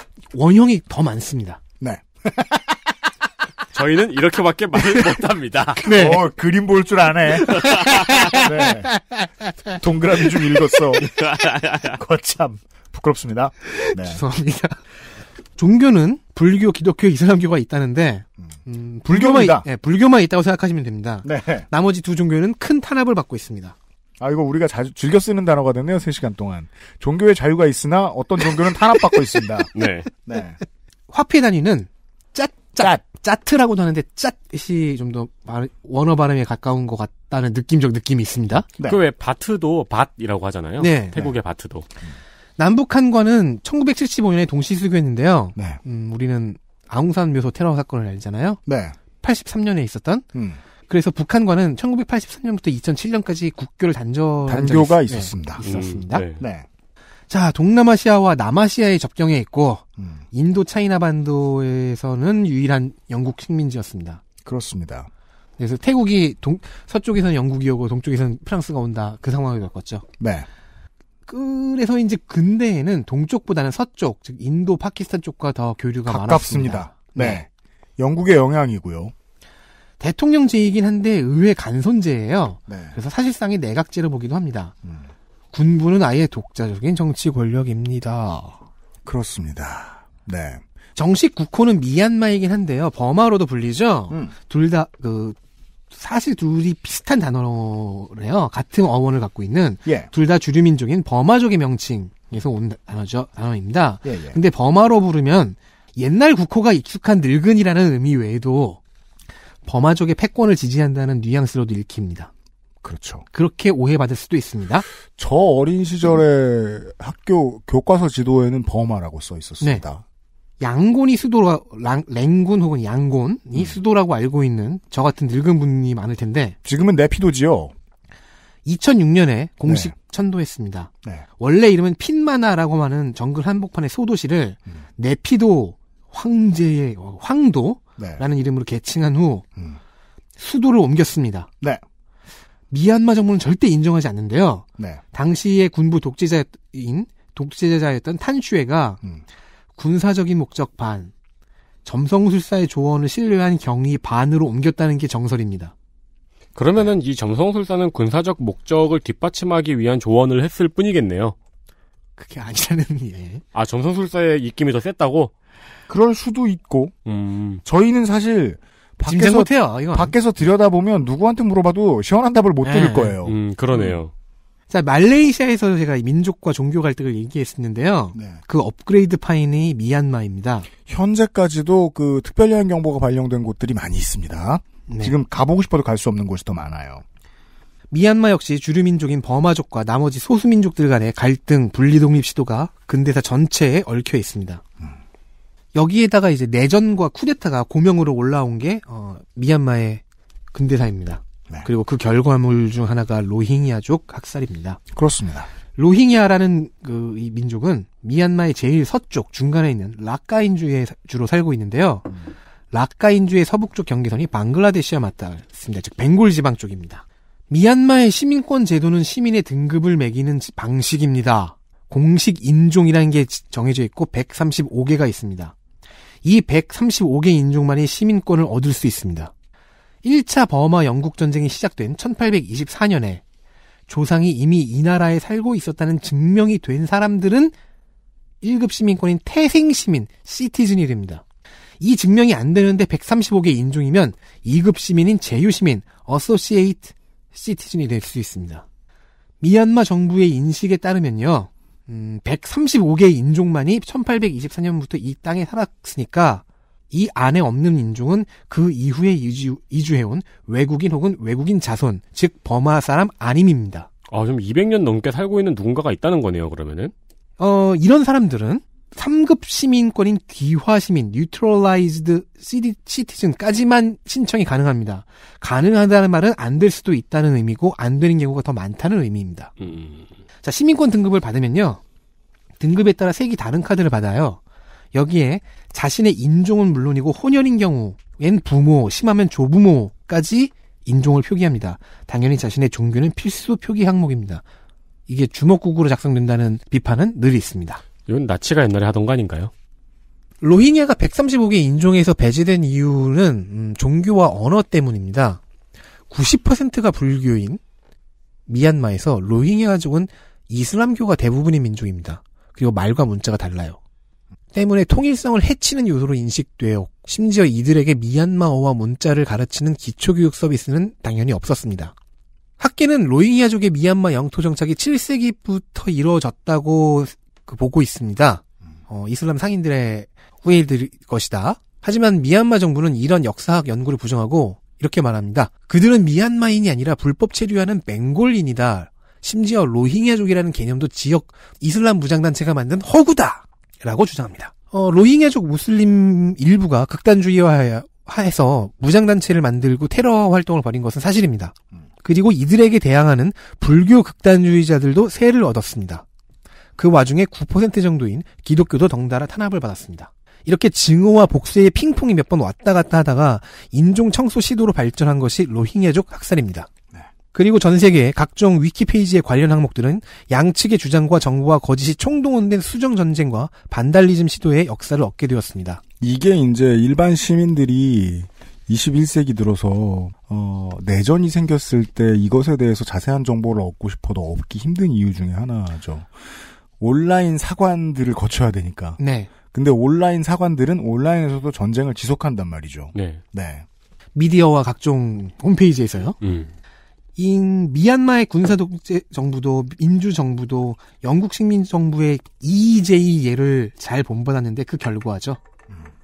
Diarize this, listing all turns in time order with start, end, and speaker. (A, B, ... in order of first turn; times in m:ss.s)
0:00.3-0:01.6 A
0:01.8-0:02.8 B
0:03.7-0:05.9 C
0:05.8-0:06.2 A
0:05.8-0:08.9 B
0:07.6-0:09.7 A
0:07.7-0:08.2 C
0:09.7-0:14.2 B
0:11.1-0:12.0 C
0:13.7-0:14.8 A
0:15.6-0:23.8 A
0:19.1-0:19.7 B
0:21.2-0:21.7 B
0:24.2-0:29.7 B
0:29.8-0:30.1 C
0:30.2-0:30.6 B
0:31.1-0:38.7 A
0:38.8-0:41.9 C
0:40.8-0:41.2 A
0:42.6-0:48.6 A
0:48.7-0:49.0 B
0:49.2-0:50.3 A
0:50.3-0:50.6 B
0:50.9-0:56.2 A
0:54.5-0:55.6 B
0:55.6-0:56.4 C
0:56.4-0:56.7 B
0:57.3-1:04.2 A
1:00.0-1:00.2 B
1:04.4-1:05.1 B
1:05.6-1:10.0 A
1:10.2-1:10.5 B
1:11.3-1:17.4 A
1:16.1-1:19.1 B
1:20.0-1:24.7 A
1:22.7-1:23.0 B
1:24.8-1:25.1 B
1:25.5-1:28.6 A
1:29.0-1:30.6 B
1:31.0-1:35.4 A
1:34.1-1:34.3 B
1:35.9-1:48.8 A
1:39.8-1:40.1 B
1:44.0-1:44.4 B
1:49.6-1:52.3 A
1:52.8-1:53.3 B
1:53.3-1:54.8 A
1:55.2-2:00.0 B
2:00.6-2:06.6 A
2:06.6-2:07.7 B
2:08.6-2:19.4 A
2:09.6-2:09.9 B
2:18.0-2:18.2 B
2:20.4-2:21.5 A
2:22.7-2:29.0 A
2:29.8-2:31.1 A
2:31.8-2:35.7 A
2:36.6-2:41.4 C
2:42.2-2:43.4 A
2:43.5-2:45.3 C
2:45.9-2:47.0 B
2:47.1-2:47.6 C
2:47.6-2:54.0 B
2:49.1-2:50.1 A
2:52.6-2:53.2 A
2:53.2-2:54.1 C
2:54.7-3:00.7 A
2:58.1-2:58.4 B
3:00.9-3:07.0 B
3:04.9-3:05.2 A
3:07.9-3:14.6 A
3:15.7-3:20.0 A
3:20.5-3:24.8 A
3:24.9-3:25.5 B
3:25.8-3:32.1 A
3:32.7-3:45.5 A
3:46.2-3:49.3 A
3:50.0-3:53.2 A
3:53.9-3:57.5 A
3:58.4-4:01.2 A
4:01.8-4:08.6 A
4:09.4-4:23.9 A
4:24.1-4:26.9 C
4:27.4-4:39.5 A
4:39.6-4:40.1 C
4:40.4-4:41.8 A
4:42.6-4:44.4 A
4:44.9-4:54.4 A
4:55.1-4:57.8 A
4:58.1-4:59.5 C
5:00.4-5:05.4 A
5:06.1-5:07.6 A
5:08.5-5:13.8 A
5:14.5-5:21.9 A
5:22.6-5:56.0 A
5:56.8-6:06.7 A
6:07.3-6:15.8 A
6:16.0-6:33.7 B
6:29.0-6:29.3 A
6:33.0-6:33.2 C
6:34.2-6:36.2 A
6:36.2-6:36.5 C
6:37.2-6:45.4 A